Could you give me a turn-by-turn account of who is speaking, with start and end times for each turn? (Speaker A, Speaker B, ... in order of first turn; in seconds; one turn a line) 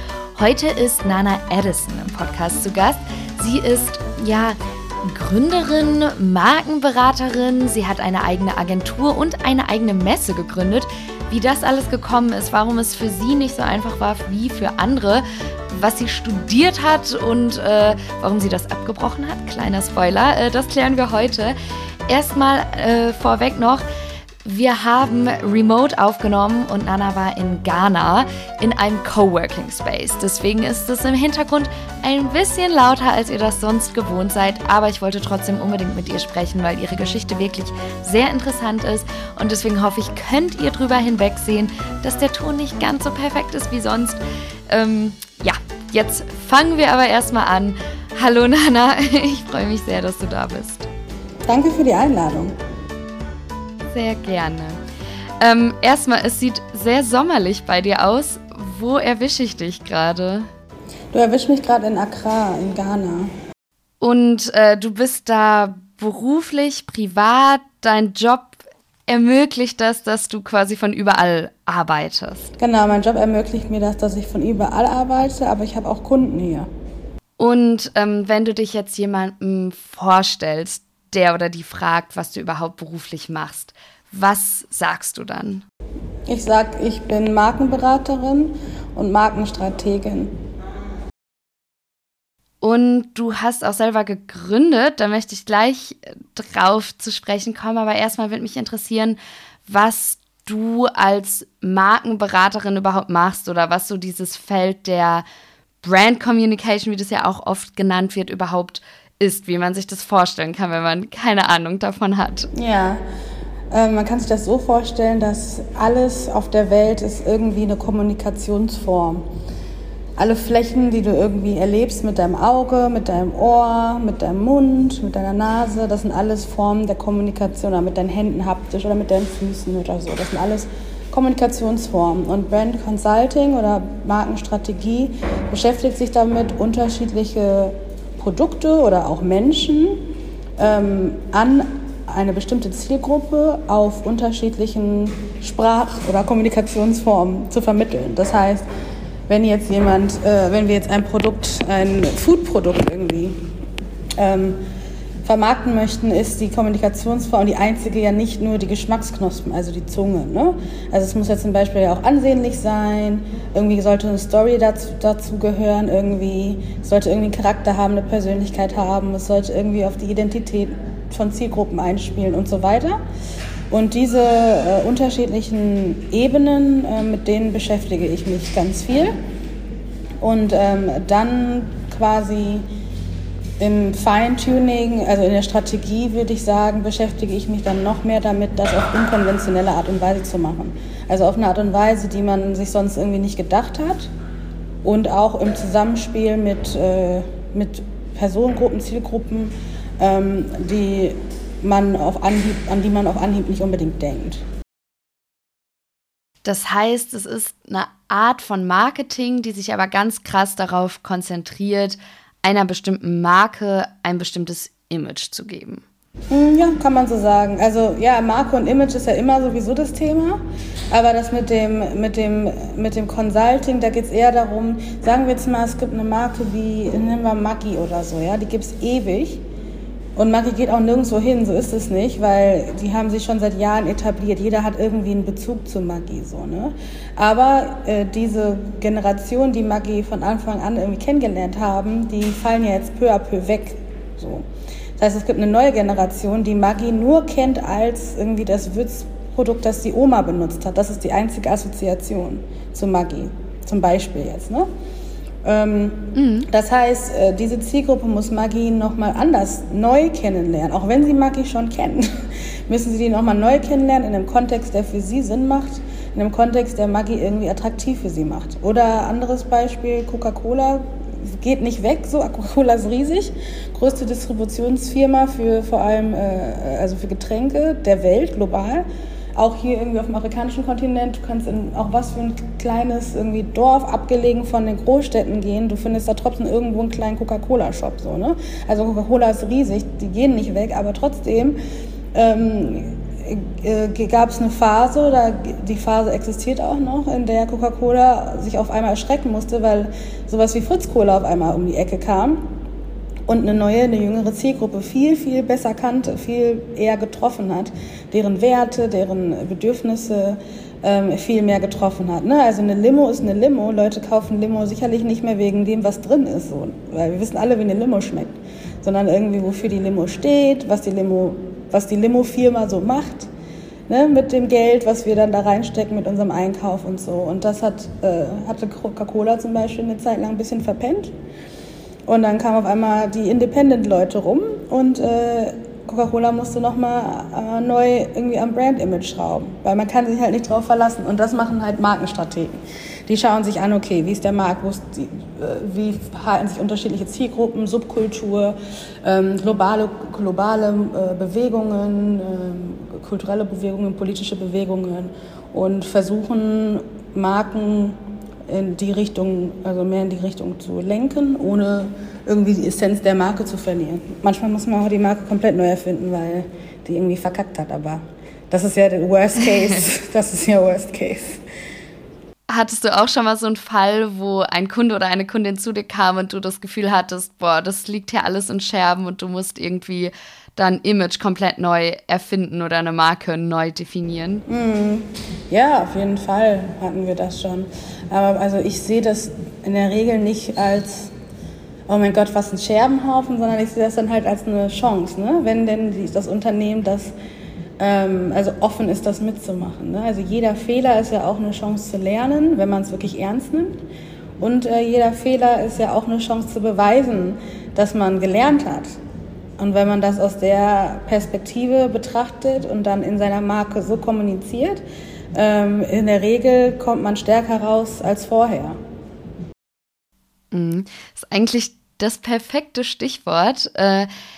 Speaker A: 0.3-21.6
Speaker A: 22.1-23.9
Speaker A: 24.4-50.9
Speaker B: 51.5-52.5
Speaker A: 53.9-54.8
Speaker A: 55.4-60.5
Speaker B: 61.1-63.3
Speaker A: 64.0-72.5
Speaker B: 72.6-76.7
Speaker A: 77.4-85.6
Speaker B: 86.3-90.4
Speaker A: 92.6-105.2
Speaker A: 105.8-112.5
Speaker B: 112.5-113.0
Speaker B: 113.7-119.3
Speaker B: 120.2-140.0
Speaker B: 140.6-148.7
Speaker B: 149.3-153.4
Speaker B: 154.2-154.6
Speaker B: 155.2-173.0
Speaker B: 173.7-179.2
Speaker B: 180.2-182.7
Speaker B: 183.6-194.1
Speaker B: 194.8-204.4
Speaker A: 206.4-215.8
Speaker B: 216.3-229.4
Speaker B: 230.2-254.7
Speaker B: 255.4-291.6
Speaker A: 256.1-256.5
Speaker B: 292.1-302.5
Speaker B: 303.3-323.3
Speaker B: 323.9-331.1
Speaker B: 332.1-371.4
Speaker A: 372.5-384.4
Speaker B: 384.5-391.1
Speaker B: 391.9-397.1
Speaker B: 397.8-403.8
Speaker B: 404.4-408.9
Speaker B: 409.6-414.8
Speaker B: 415.3-418.8
Speaker A: 420.5-424.1